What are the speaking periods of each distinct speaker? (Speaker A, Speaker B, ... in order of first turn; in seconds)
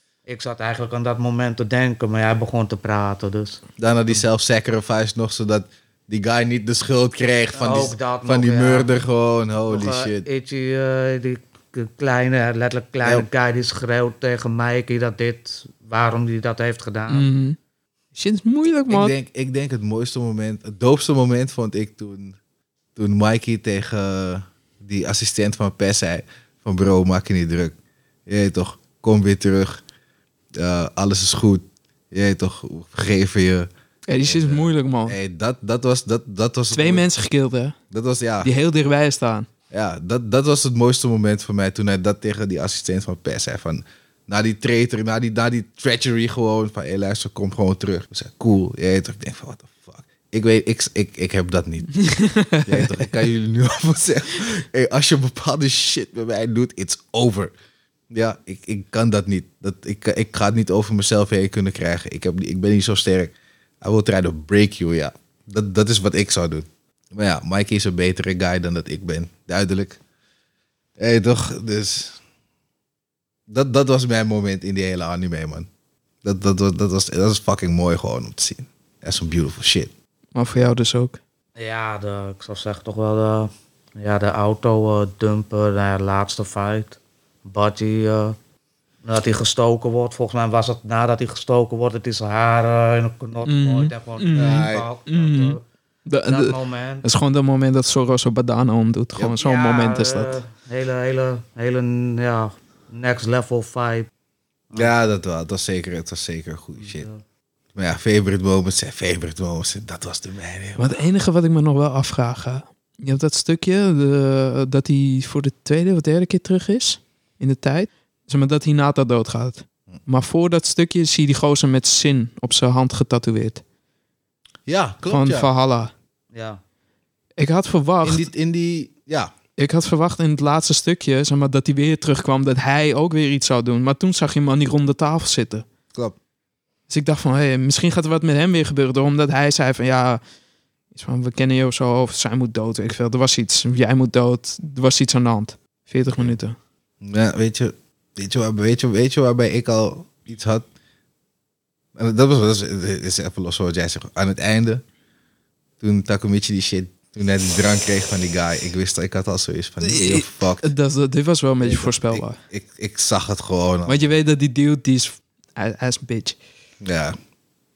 Speaker A: 0.3-4.2, 7.5-8.9, 9.7-17.3, 81.6-88.4, 89.0-95.6, 96.3-97.0, 99.4-104.1, 106.8-107.2, 126.3-126.6
Speaker B: 3.8-10.3, 18.9-22.4, 23.0-27.8, 28.3-29.8, 30.6-33.7, 34.2-37.1, 37.9-38.5, 39.7-52.0, 52.6-57.5, 58.1-70.0, 71.0-72.2, 73.5-75.7, 76.2-79.9, 94.4-94.9, 104.8-107.1, 107.8-111.0, 124.7-125.5, 128.0-129.3, 147.0-150.7, 151.9-154.8, 155.8-160.7, 161.6-164.2, 166.8-167.2
Speaker C: 17.1-17.6, 18.1-19.1, 34.1-35.2, 36.7-37.8, 38.4-39.5, 52.0-53.1, 80.3-81.2, 93.5-100.4, 110.8-123.6, 125.1-125.9, 127.4-128.3, 129.6-135.7, 136.9-140.2, 140.9-146.6, 159.8-162.4, 163.9-166.4